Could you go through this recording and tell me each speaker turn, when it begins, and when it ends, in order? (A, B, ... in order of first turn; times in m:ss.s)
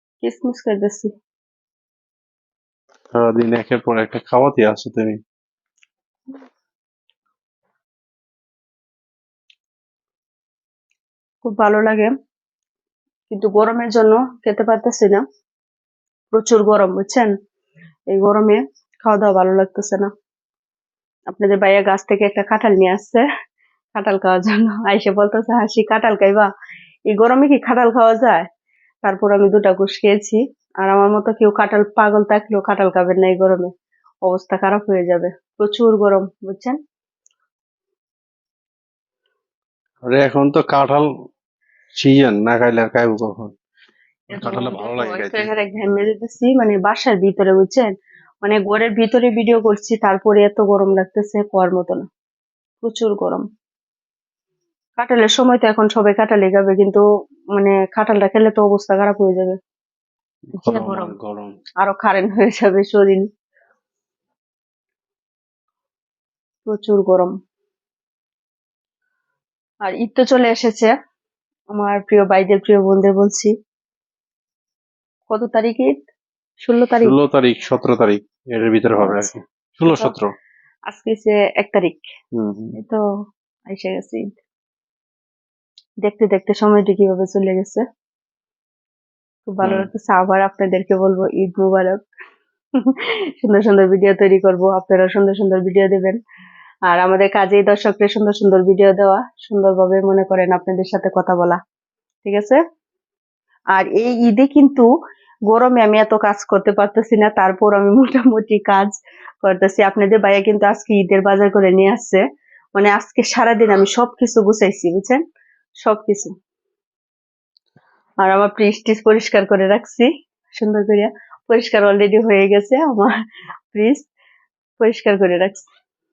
0:00.2-0:01.1 A
0:03.1-0:05.2 B
0:11.4-0:12.1 A
0:13.3-0:15.2 A
0:16.3-0:17.3 A
0:18.1-0:20.1 A
0:21.3-0:23.2 A
0:24.0-0:26.5 A
0:27.1-0:28.5 A
0:29.0-0:33.7 A
0:34.3-0:36.8 A
0:40.0-0:41.0 B
0:42.0-0:43.6 B
0:44.3-0:47.9 A
0:44.3-0:45.5 B
0:48.4-0:52.0 A
0:52.8-0:53.4 A
0:55.0-0:59.6 A
1:00.6-1:01.6 B
1:00.6-1:01.2 A
1:01.8-1:03.2 A
1:06.7-1:07.3 A
1:09.8-1:10.9 A
1:11.7-1:13.5 A
1:15.3-1:16.0 A
1:16.6-1:17.2 A
1:17.0-1:20.3 B
1:19.0-1:19.3 A
1:20.9-1:22.0 A
1:22.3-1:22.7 B
1:23.7-1:24.4 A
1:26.0-1:27.8 A
1:29.5-1:32.0 A
1:29.6-1:29.9 B
1:32.8-1:36.2 A
1:36.9-1:41.6 A
1:42.2-1:42.6 A
1:43.7-1:44.9 A
1:45.5-1:52.2 A
1:52.8-1:55.2 A
1:55.8-1:56.3 A
1:58.2-2:03.1 A
2:03.7-2:04.1 A
2:04.8-2:05.7 A